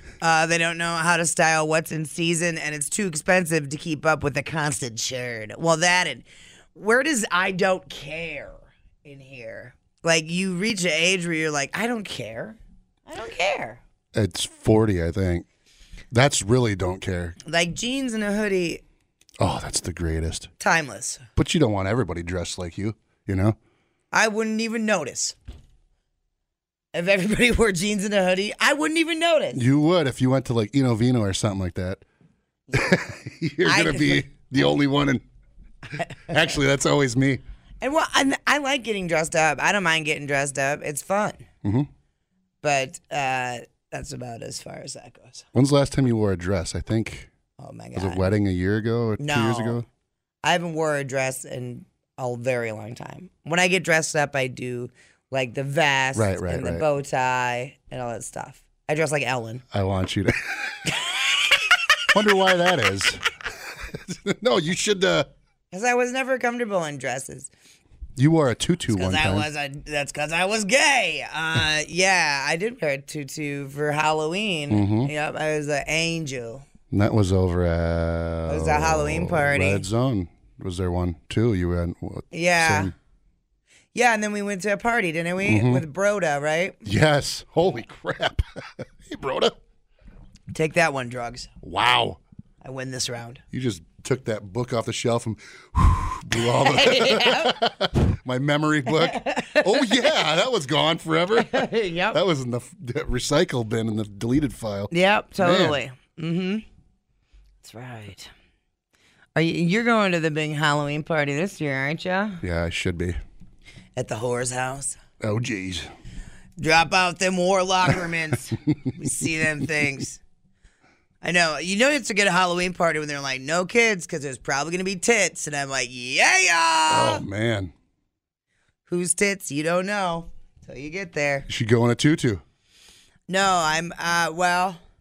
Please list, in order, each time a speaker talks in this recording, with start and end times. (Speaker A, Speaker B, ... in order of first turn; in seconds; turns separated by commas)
Speaker A: 0.2-13.8, Speaker B: 14.2-15.5, Speaker B: 16.1-17.4, Speaker A: 17.4-18.8, Speaker B: 19.4-20.5, Speaker A: 20.6-21.2, Speaker B: 21.4-23.6, Speaker A: 24.1-25.4, Speaker A: 26.9-29.6, Speaker B: 29.5-32.0, Speaker B: 32.7-35.2, Speaker A: 33.6-34.3, Speaker A: 36.0-36.3, Speaker B: 36.3-37.4, Speaker A: 37.8-41.4, Speaker B: 41.6-41.9, Speaker A: 42.6-45.5, Speaker B: 45.5-47.3, Speaker A: 47.6-48.2, Speaker B: 48.0-49.9, Speaker A: 49.2-49.8, Speaker A: 50.4-59.6, Speaker B: 56.1-56.8, Speaker B: 59.7-60.8, Speaker B: 62.1-63.2, Speaker B: 63.9-65.3, Speaker A: 65.7-67.5, Speaker B: 68.2-69.5, Speaker A: 68.9-76.7, Speaker B: 74.7-75.1, Speaker B: 76.9-82.9, Speaker A: 78.5-79.8, Speaker A: 82.3-82.9, Speaker A: 83.9-86.8, Speaker B: 85.4-85.8, Speaker B: 86.8-89.6, Speaker A: 90.5-91.5, Speaker B: 91.6-92.2, Speaker A: 92.6-93.4, Speaker B: 93.5-105.8, Speaker A: 96.4-97.6, Speaker A: 98.9-100.1, Speaker A: 101.4-102.2, Speaker A: 104.9-106.6, Speaker A: 107.6-108.3, Speaker A: 109.3-112.4, Speaker B: 112.4-113.2, Speaker A: 114.0-115.0, Speaker B: 115.2-115.9, Speaker A: 116.6-120.2, Speaker A: 121.2-127.2, Speaker B: 126.9-127.7, Speaker A: 128.9-131.5, Speaker B: 131.5-132.4, Speaker A: 133.3-134.8